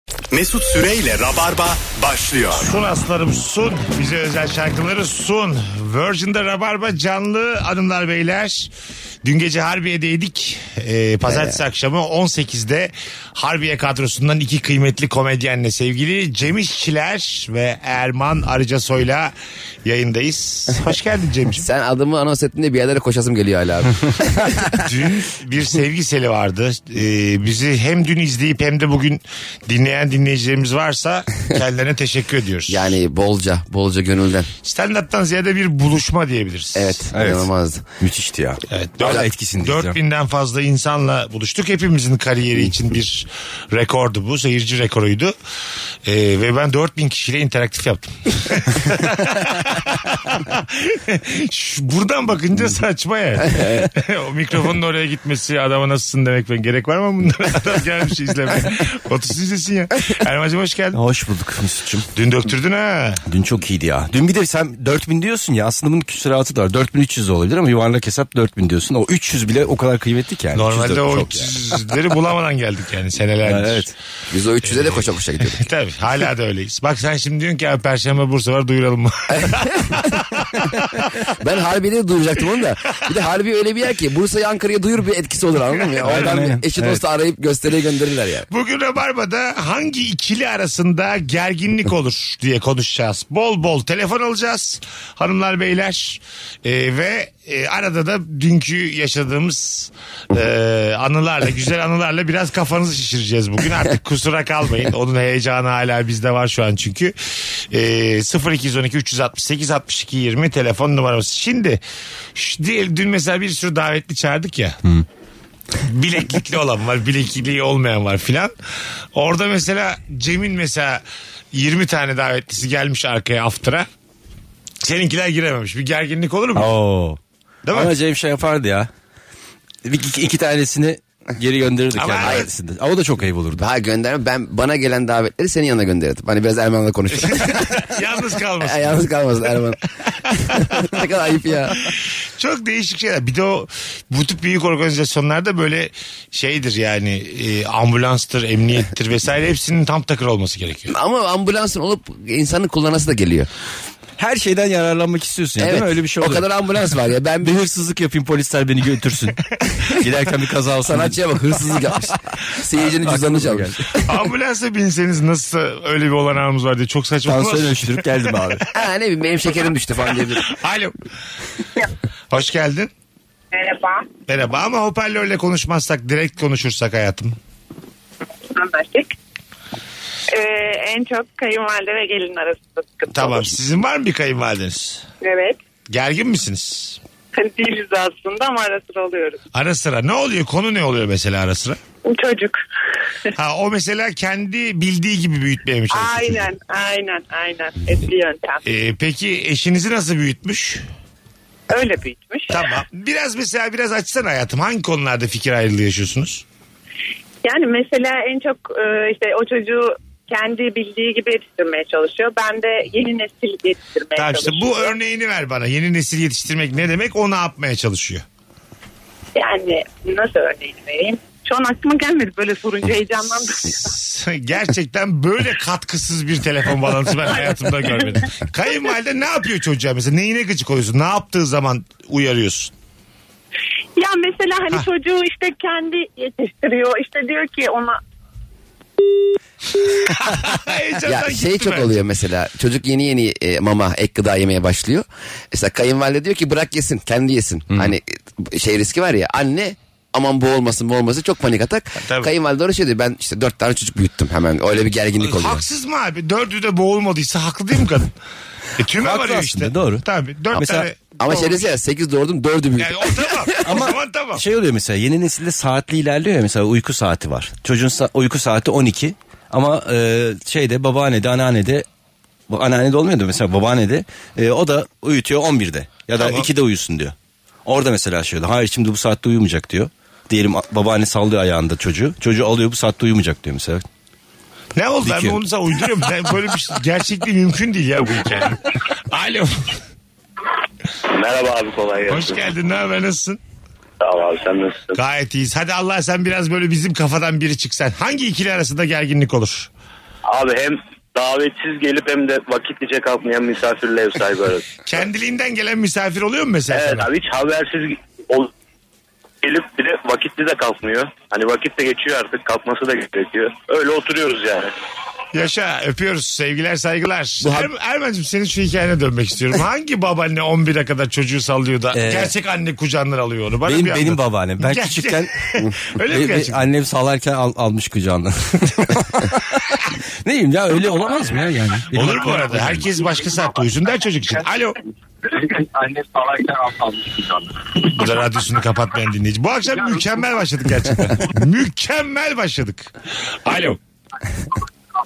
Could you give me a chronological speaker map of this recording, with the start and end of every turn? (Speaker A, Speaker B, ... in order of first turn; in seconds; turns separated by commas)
Speaker A: 0.3-2.7, Speaker B: 2.6-8.7, Speaker B: 9.2-19.3, Speaker C: 11.2-11.6, Speaker B: 19.9-21.6, Speaker C: 21.6-24.7, Speaker B: 24.8-33.0, Speaker C: 32.7-34.5, Speaker B: 34.6-37.0, Speaker C: 36.8-37.9, Speaker D: 37.1-37.5, Speaker D: 38.0-40.0, Speaker B: 38.7-45.3, Speaker B: 46.0-61.0, Speaker D: 60.9-62.1, Speaker B: 62.1-63.2, Speaker D: 63.3-71.9, Speaker B: 70.5-73.9, Speaker D: 73.4-73.9, Speaker C: 74.3-75.7, Speaker B: 74.6-81.1, Speaker C: 79.3-80.1, Speaker C: 81.4-88.5, Speaker B: 86.0-86.4, Speaker D: 86.0-87.0, Speaker B: 88.5-107.2, Speaker B: 107.7-111.8, Speaker B: 112.3-114.8, Speaker B: 115.8-118.5, Speaker B: 119.1-123.9, Speaker B: 124.8-126.8, Speaker D: 126.5-127.2, Speaker B: 127.7-127.9, Speaker D: 127.7-128.9, Speaker D: 129.8-133.6, Speaker B: 131.9-132.5, Speaker C: 132.2-132.5, Speaker C: 133.6-137.9, Speaker B: 137.3-139.0, Speaker C: 138.6-139.8, Speaker B: 140.3-141.0, Speaker C: 140.4-141.9, Speaker B: 141.8-150.9, Speaker C: 150.9-153.5, Speaker D: 154.2-156.4, Speaker C: 155.6-157.6, Speaker D: 157.4-162.2, Speaker C: 160.8-163.8, Speaker D: 162.8-163.9, Speaker B: 164.0-168.6, Speaker D: 167.3-168.6, Speaker C: 168.7-170.6, Speaker B: 170.5-170.9, Speaker B: 172.3-172.9, Speaker E: 173.5-174.1, Speaker B: 174.3-177.3, Speaker E: 178.5-179.1, Speaker E: 180.3-183.5, Speaker B: 183.1-185.1, Speaker E: 185.2-185.6, Speaker B: 185.9-187.0, Speaker E: 187.3-189.4, Speaker B: 189.5-191.8, Speaker E: 192.0-192.6, Speaker B: 193.4-196.4, Speaker E: 195.9-198.6, Speaker B: 198.7-200.8, Speaker E: 201.7-202.8, Speaker B: 202.5-206.4, Speaker E: 207.4-215.0, Speaker B: 214.2-218.2, Speaker E: 219.4-223.9, Speaker B: 223.8-232.7, Speaker E: 234.0-238.0, Speaker B: 240.1-241.9, Speaker C: 241.1-255.6, Speaker B: 252.0-252.3, Speaker B: 255.2-258.1, Speaker B: 258.8-261.6, Speaker D: 259.0-260.9, Speaker C: 261.2-263.9, Speaker B: 262.8-264.4, Speaker D: 263.6-271.9, Speaker D: 272.5-277.1, Speaker B: 276.1-276.5, Speaker D: 277.7-283.9, Speaker B: 284.8-289.7, Speaker D: 285.0-285.4, Speaker F: 291.1-292.4, Speaker B: 292.1-293.4, Speaker F: 294.0-295.0, Speaker B: 294.9-299.7, Speaker F: 300.3-304.7, Speaker B: 304.9-307.1, Speaker F: 306.7-308.5, Speaker F: 309.4-314.7, Speaker B: 315.3-326.6, Speaker D: 321.9-322.3, Speaker D: 323.6-325.3, Speaker D: 326.1-332.9, Speaker B: 331.9-334.8, Speaker B: 337.8-342.9, Speaker B: 343.4-343.8